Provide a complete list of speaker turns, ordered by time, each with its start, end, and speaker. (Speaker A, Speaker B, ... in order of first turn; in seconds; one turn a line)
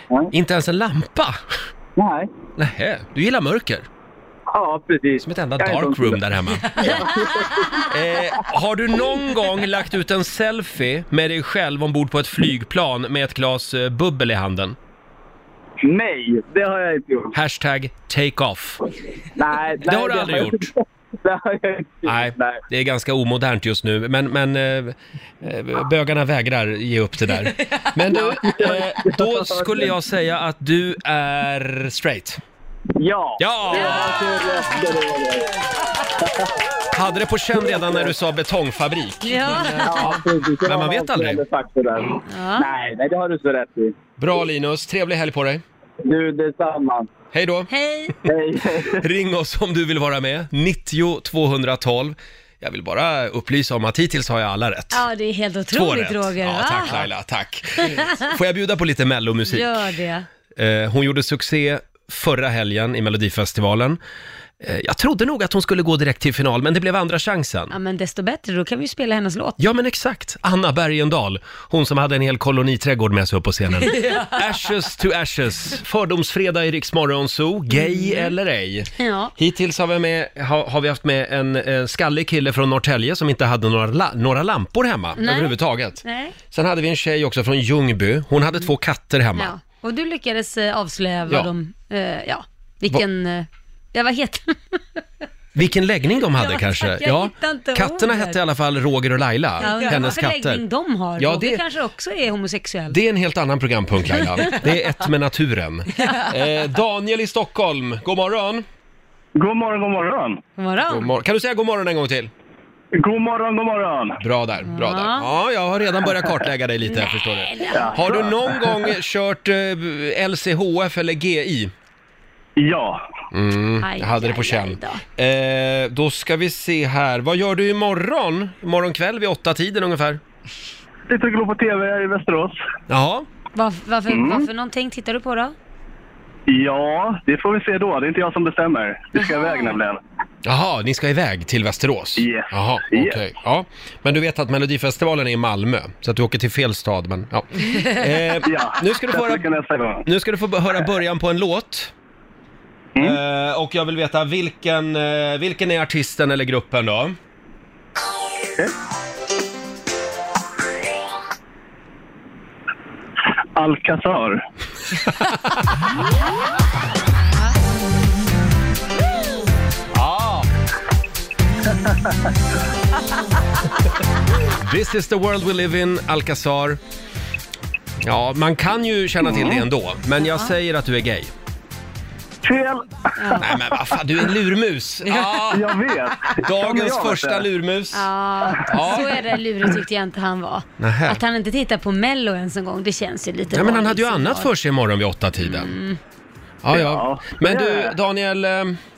Speaker A: 0.3-1.4
Speaker B: 2.0-2.3
Speaker A: 2.6-3.9
Speaker B: 4.5-6.2
Speaker A: 5.2-7.1
Speaker C: 6.7-7.8
Speaker B: 6.8-7.5
Speaker A: 7.9-14.8
Speaker B: 15.8-17.4
Speaker A: 17.3-18.8
Speaker B: 19.4-20.7
Speaker A: 19.8-20.7
Speaker B: 21.2-22.6
Speaker A: 22.1-32.4
Speaker B: 28.1-29.9
Speaker B: 33.0-35.5
Speaker A: 33.4-34.6
Speaker A: 36.9-41.4
Speaker B: 37.6-38.1
Speaker C: 39.2-40.1
Speaker B: 39.9-43.9
Speaker C: 42.3-42.7
Speaker A: 44.2-45.6
Speaker B: 46.0-47.1
Speaker A: 47.3-47.7
Speaker C: 47.7-48.1
Speaker B: 48.2-49.0
Speaker A: 48.9-55.0
Speaker C: 54.9-57.0
Speaker A: 55.7-59.9
Speaker C: 59.5-60.3
Speaker A: 60.5-64.0
Speaker A: 64.6-67.8
Speaker C: 67.7-69.6
Speaker A: 69.6-89.5
Speaker C: 73.8-74.4
Speaker C: 77.7-78.3
Speaker C: 79.0-79.3
Speaker C: 85.2-86.3
Speaker C: 89.3-94.8
Speaker A: 95.5-100.6
Speaker C: 96.3-98.4
Speaker C: 99.6-103.0
Speaker A: 101.2-101.6
Speaker A: 102.9-108.7
Speaker D: 109.4-110.4
Speaker C: 110.6-111.1
Speaker A: 110.9-112.3
Speaker D: 113.0-114.2
Speaker A: 114.2-121.7
Speaker C: 114.7-115.3
Speaker C: 116.8-118.1
Speaker D: 117.8-118.7
Speaker D: 122.6-123.0
Speaker A: 123.3-130.2
Speaker C: 123.8-125.0
Speaker D: 131.1-132.6
Speaker A: 132.9-133.3
Speaker C: 133.5-135.5
Speaker D: 134.1-134.5
Speaker D: 136.5-140.0
Speaker C: 139.2-139.8
Speaker A: 140.4-149.5
Speaker D: 142.2-143.2
Speaker D: 148.4-150.0
Speaker A: 150.0-151.9
Speaker A: 153.0-157.2
Speaker D: 163.6-164.4
Speaker A: 169.9-170.5
Speaker A: 174.6-176.8
Speaker A: 178.0-181.3
Speaker D: 179.2-179.7
Speaker C: 180.2-180.5
Speaker D: 182.4-183.4
Speaker C: 183.2-183.5
Speaker A: 183.4-185.8
Speaker D: 185.1-187.5
Speaker A: 186.4-188.1
Speaker C: 187.9-194.5
Speaker A: 188.7-189.1
Speaker A: 190.8-191.2
Speaker A: 193.5-195.7
Speaker C: 195.4-196.0
Speaker A: 196.6-198.8
Speaker D: 196.7-197.9